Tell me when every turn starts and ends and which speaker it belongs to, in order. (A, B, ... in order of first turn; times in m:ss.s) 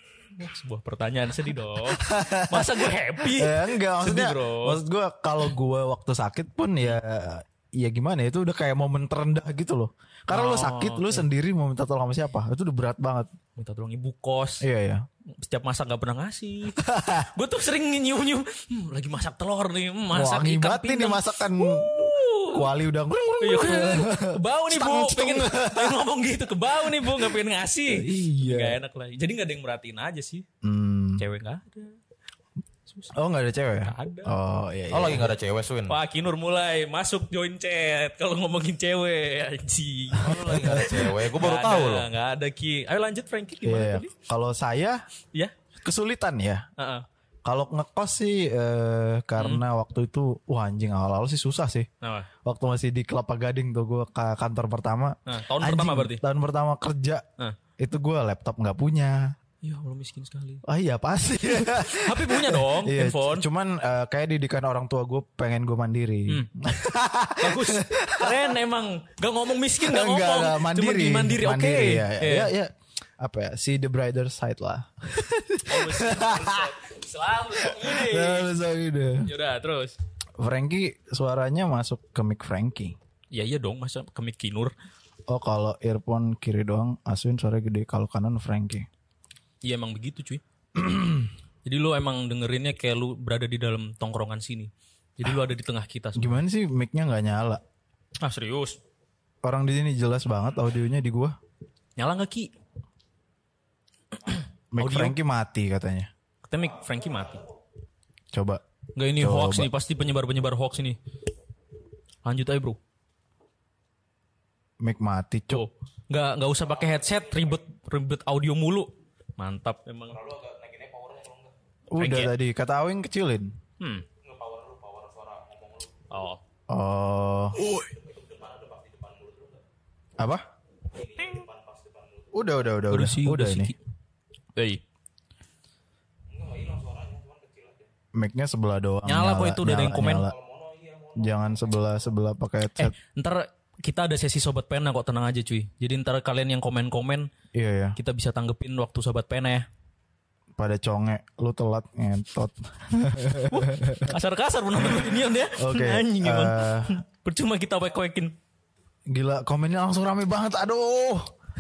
0:00.4-0:04.8 A
0:01.9-0:13.3 B
0:10.3-0:11.3 A
0:13.6-0:14.7 A
0:14.6-0:15.0 B
0:15.3-0:16.8 A
0:16.8-0:17.3 B
0:17.3-0:22.7 A
0:20.1-0:26.0 B
0:23.4-0:30.5 A
0:27.0-0:27.3 B
0:27.9-0:28.8 B
0:30.6-0:31.2 B
0:31.2-0:32.0 A
0:32.9-0:33.1 A
0:33.1-0:35.3 B
0:33.8-0:34.3 A
0:34.9-0:36.0 C
0:35.9-0:44.1 A
0:40.2-0:42.1 C
0:40.2-0:41.1 B
0:43.6-0:45.0 B
0:45.8-0:46.7 B
0:46.8-0:47.1 A
0:47.4-0:51.9 B
0:49.4-0:49.6 A
0:52.0-0:52.3 A
0:52.4-0:57.2 B
0:55.3-0:56.2 A
0:57.8-0:59.4 B
0:59.6-1:00.6 A
1:00.6-1:08.5 B
1:01.5-1:03.5 A
1:07.4-1:12.5 A
1:09.8-1:16.7 B
1:15.7-1:18.5 A
1:17.6-1:19.3 B
1:19.2-1:20.0 A
1:20.4-1:23.0 B
1:23.3-1:24.7 A
1:25.3-1:28.9 B
1:29.6-1:30.4 A
1:30.8-1:31.3 B
1:31.6-1:36.4 A
1:36.1-1:37.6 B
1:38.2-1:38.8 A
1:39.4-1:41.4 B
1:42.0-1:42.5 A
1:44.3-1:45.2 A
1:44.7-1:46.1 B
1:46.4-1:47.4 A
1:48.3-1:48.6 B
1:49.0-1:51.0 A
1:49.2-1:49.7 B
1:52.2-1:52.8 A
1:54.8-1:55.6 B
1:55.5-2:00.2 A
1:56.6-1:57.6 C
2:00.1-2:01.5 C
2:01.9-2:03.6 B
2:02.0-2:02.3 A
2:03.8-2:04.1 A
2:04.2-2:06.1 C
2:06.1-2:06.4 A
2:06.7-2:07.6 B
2:07.6-2:09.6 C
2:07.6-2:07.9 A
2:10.2-2:10.4 B
2:10.9-2:12.6 C
2:12.3-2:13.7 B
2:12.9-2:13.8 A
2:14.6-2:14.8 A
2:16.3-2:17.9 C
2:18.1-2:20.3 B
2:19.0-2:20.3 A
2:20.1-2:22.1 C
2:21.2-2:23.0 B
2:22.8-2:27.3 A
2:27.5-2:28.0 B
2:28.0-2:29.7 A
2:30.6-2:34.1 B
2:33.5-2:38.4 A
2:35.5-2:37.0 B
2:39.1-2:41.3 B